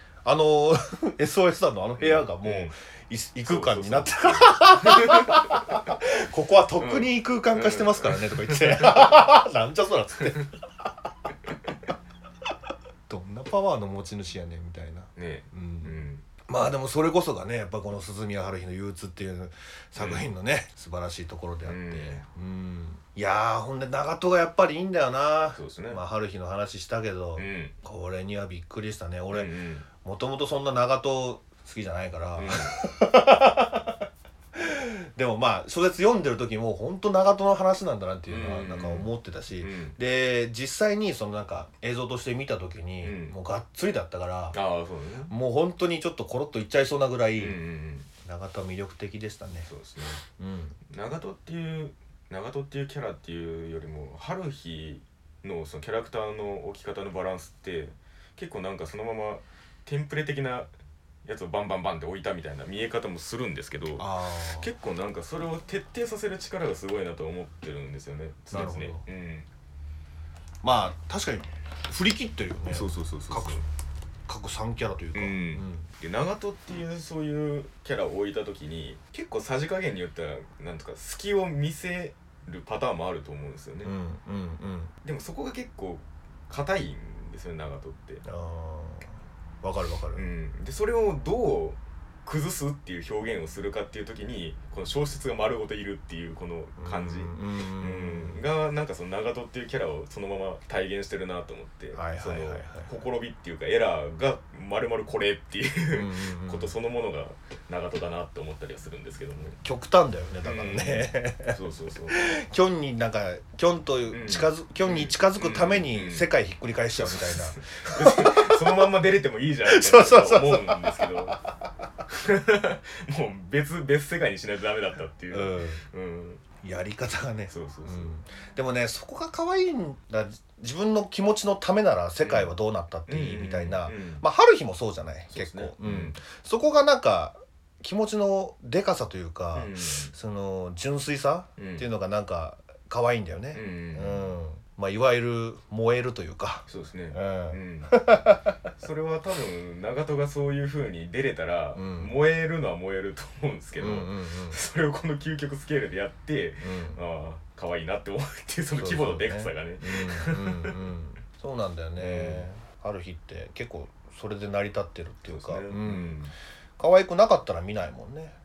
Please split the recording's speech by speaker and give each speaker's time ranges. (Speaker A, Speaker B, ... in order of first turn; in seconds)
Speaker A: 0.2-10.9, 13.1-29.5, 30.0-44.6, 45.3-47.6, 48.2-49.7, 50.4-50.8, 64.0-64.7, 68.5-69.0, 70.6-73.6, 74.3-75.9, 83.8-84.9, 88.2-90.2, 96.8-98.4, 101.9-102.9, 105.9-106.8, 109.6-111.6, 112.1-118.9, 119.7-121.5, 125.3-125.8, 126.6-148.7, 151.7-152.1, 153.8-154.6, 156.6-157.0, 158.7-166.3, 166.8-168.3
Speaker B: 2.0-2.7, 3.4-5.9, 6.8-9.2, 15.2-16.2, 19.9-20.3, 21.6-22.2, 25.5-26.0, 27.4-27.7, 29.3-29.9, 32.4-32.8, 38.3-40.0, 43.0-43.4, 44.5-45.3, 47.4-48.1, 49.7-50.2, 50.9-60.7, 61.2-69.5, 72.7-73.6, 75.1-83.9, 85.0-88.2, 90.1-109.6, 110.4-112.2, 114.1-116.3, 117.0-121.4, 122.1-126.4, 127.5-128.1, 132.2-132.5, 133.1-134.2, 135.3-136.2, 139.5-140.1, 141.6-141.9, 143.5-144.3, 146.7-148.0, 148.7-160.9, 162.0-162.5, 165.2-166.3